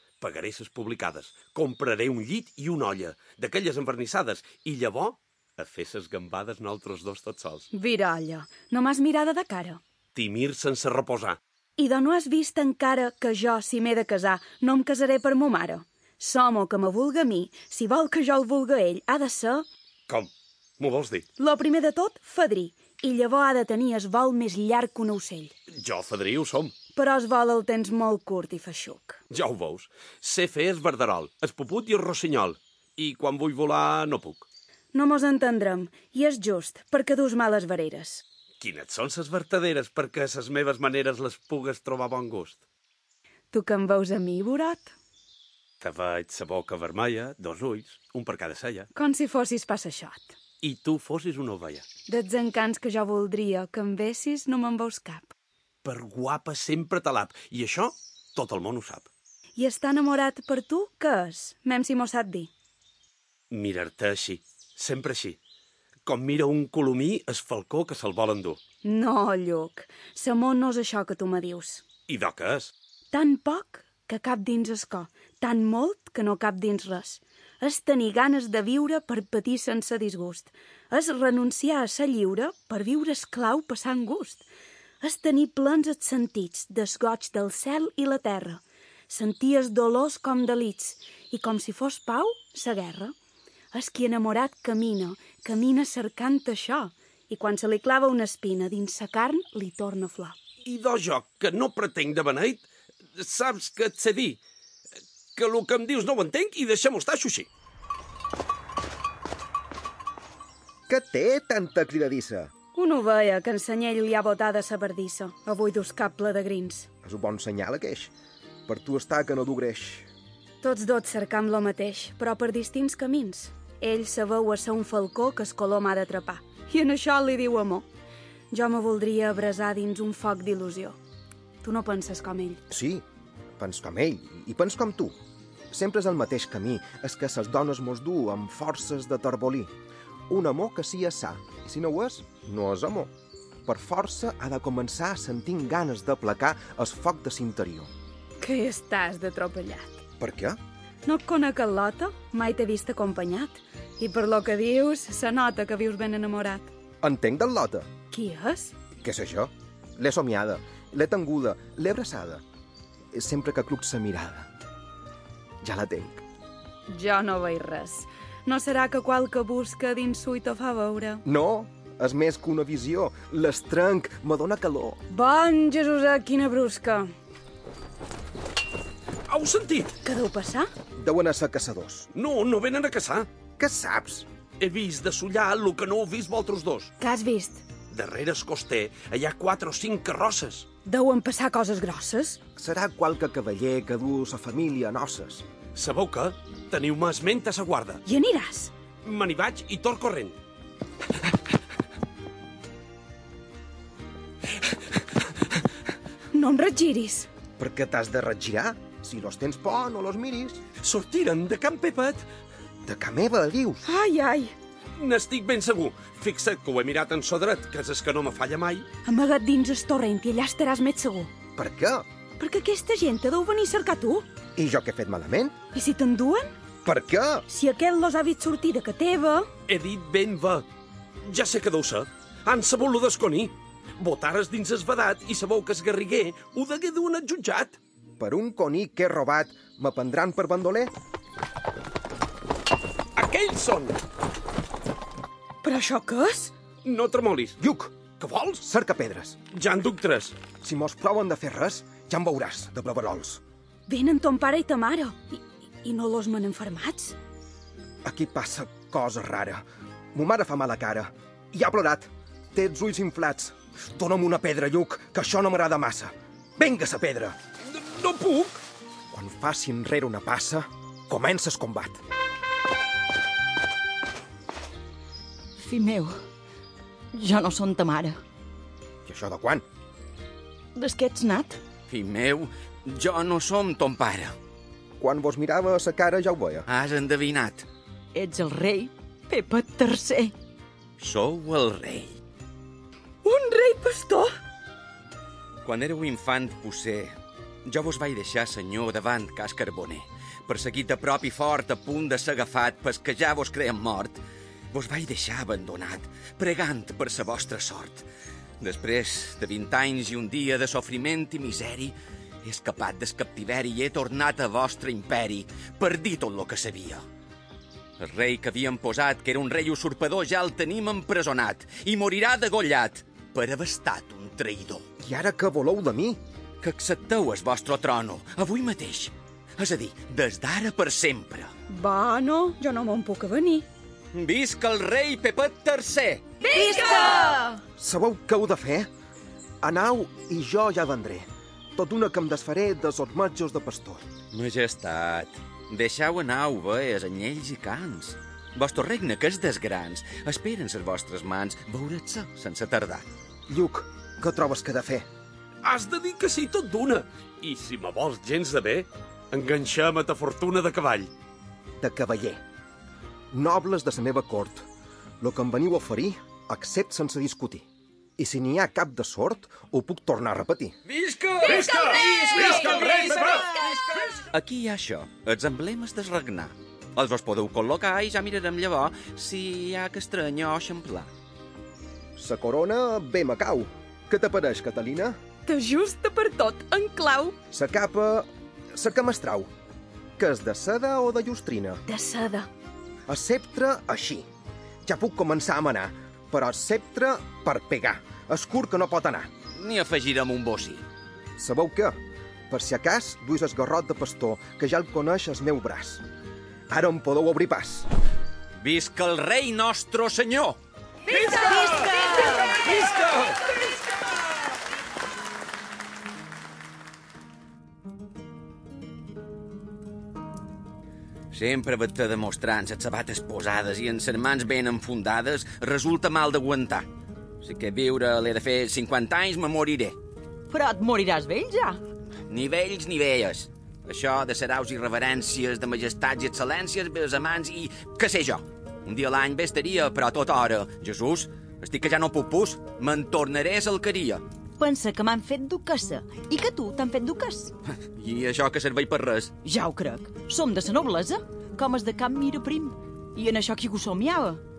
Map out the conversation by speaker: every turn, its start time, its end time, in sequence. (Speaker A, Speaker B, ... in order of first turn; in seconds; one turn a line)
Speaker A: 0.2-7.7
Speaker B: 7.7-9.8
Speaker A: 10.1-11.4
Speaker B: 11.8-19.6
Speaker A: 20.1-21.3
Speaker B: 21.4-25.5
Speaker A: 25.7-26.7
Speaker B: 26.9-29.2
Speaker A: 29.3-34.5
Speaker B: 34.9-38.2
Speaker A: 38.6-42.6
Speaker B: 43.5-44.9
Speaker A: 45.8-48.9
Speaker B: 48.9-50.3
Speaker A: 50.6-51.8
Speaker B: 52.1-55.3
Speaker A: 55.8-59.1
Speaker B: 59.6-62.5
Speaker A: 63.5-65.4
Speaker A: 66.0-68.6
Speaker B: 68.8-71.8
Speaker A: 72.1-72.7
Speaker B: 73.1-84.4
Speaker B: 85.0-93.1
Speaker B: 93.7-100.4
Speaker A: 100.6-104.4
Speaker A: 105.3-107.5
Speaker C: 110.9-112.5
Speaker B: 112.7-116.9
Speaker C: 117.0-118.1
Speaker C: 118.7-120.1
Speaker B: 120.6-127.8
Speaker B: 128.5-131.0
Speaker B: 131.6-132.6
Speaker C: 132.7-133.0
Speaker C: 133.6-135.1
Speaker C: 135.7-139.7
Speaker C: 140.3-143.1
Speaker C: 143.7-147.9
Speaker B: 148.4-150.0
Speaker C: 150.2-150.6
Speaker B: 151.1-156.7
Speaker C: 157.0-157.9
Speaker B: 158.1-158.7
Speaker C: 159.0-162.4
Speaker C: 163.1-164.5
Speaker C: 165.6-166.2
Speaker B: 166.9-171.2
Speaker C: 171.2-175.0
Speaker B: 175.1-177.1
Speaker A: 179.3-179.9
Speaker B: 180.0-180.7
Speaker C: 181.0-182.1
Speaker A: 182.1-183.3
Speaker C: 183.6-184.3
Speaker A: 184.6-186.9
Speaker B: 187.0-187.6
Speaker A: 187.9-190.7
Speaker B: 190.8-192.4
Speaker C: 192.6-195.4
Speaker A: 195.7-198.0
Speaker B: 198.1-198.7
Speaker A: 199.0-200.3
Speaker B: 206.3-207.3
Speaker C: 207.6-210.6
Speaker A: 210.8-212.2
Speaker C: 212.8-213.8
Speaker B: 213.8-214.5
Speaker A: 215.0-218.9
Speaker B: 219.1-221.3
Speaker C: 221.6-222.1
Speaker B: 222.4-224.2
Speaker C: 224.6-225.6
Speaker B: 225.7-226.5
Speaker C: 226.8-227.4
Speaker B: 227.5-229.5
Speaker A: 229.7-230.6
Speaker A: 231.2-237.8
Speaker C: 238.2-240.9
Speaker A: 243.1-243.9
Speaker B: 245.6-246.5
Speaker A: 246.8-247.6
Speaker C: 247.6-247.9
Speaker A: 248.2-248.6
Speaker C: 248.6-249.4
Speaker A: 249.5-250.3
Speaker C: 250.6-253.4
Speaker B: 253.9-257.1
Speaker C: 258.0-267.4
Speaker A: 267.7-268.6
Speaker C: 269.1-272.0
Speaker D: 275.6-276.2
Speaker D: 277.1-278.2
Speaker C: 279.1-279.6
Speaker D: 280.7-281.6
Speaker E: 281.9-284.4
Speaker C: 285.0-286.7
Speaker E: 286.7-287.6
Speaker D: 288.1-290.3
Speaker E: 291.0-292.2
Speaker B: 293.2-294.3
Speaker E: 295.6-297.1
Speaker E: 297.6-304.2
Speaker E: 304.7-308.1
Speaker E: 308.6-317.0
Speaker E: 318.0-324.8
Speaker C: 325.0-326.2
Speaker E: 326.6-331.5
Speaker B: 331.7-333.6
Speaker E: 334.1-336.2
Speaker B: 336.5-337.5
Speaker D: 336.5-337.6
Speaker C: 337.8-338.9
Speaker C: 339.6-344.0
Speaker E: 344.3-353.0
Speaker C: 353.5-355.1
Speaker A: 355.6-361.1
Speaker C: 361.8-362.4
Speaker C: 363.3-364.6
Speaker C: 365.2-367.6
Speaker C: 368.2-370.8
Speaker E: 370.9-381.1
Speaker A: 371.4-373.5
Speaker C: 382.1-385.2
Speaker B: 385.4-387.4
Speaker C: 387.5-389.5
Speaker C: 390.2-391.8
Speaker B: 391.9-392.5
Speaker C: 393.1-394.2
Speaker C: 394.8-399.3
Speaker E: 399.5-400.8
Speaker C: 401.4-401.9
Speaker C: 402.5-406.0
Speaker C: 406.7-407.9
Speaker E: 408.6-410.6
Speaker B: 411.1-412.6
Speaker D: 412.2-412.5
Speaker A: 412.7-413.3
Speaker E: 421.3-426.9
Speaker E: 427.4-429.9
Speaker D: 430.5-431.8
Speaker E: 432.3-444.2
Speaker D: 444.6-447.5
Speaker E: 447.7-449.3
Speaker D: 449.4-454.4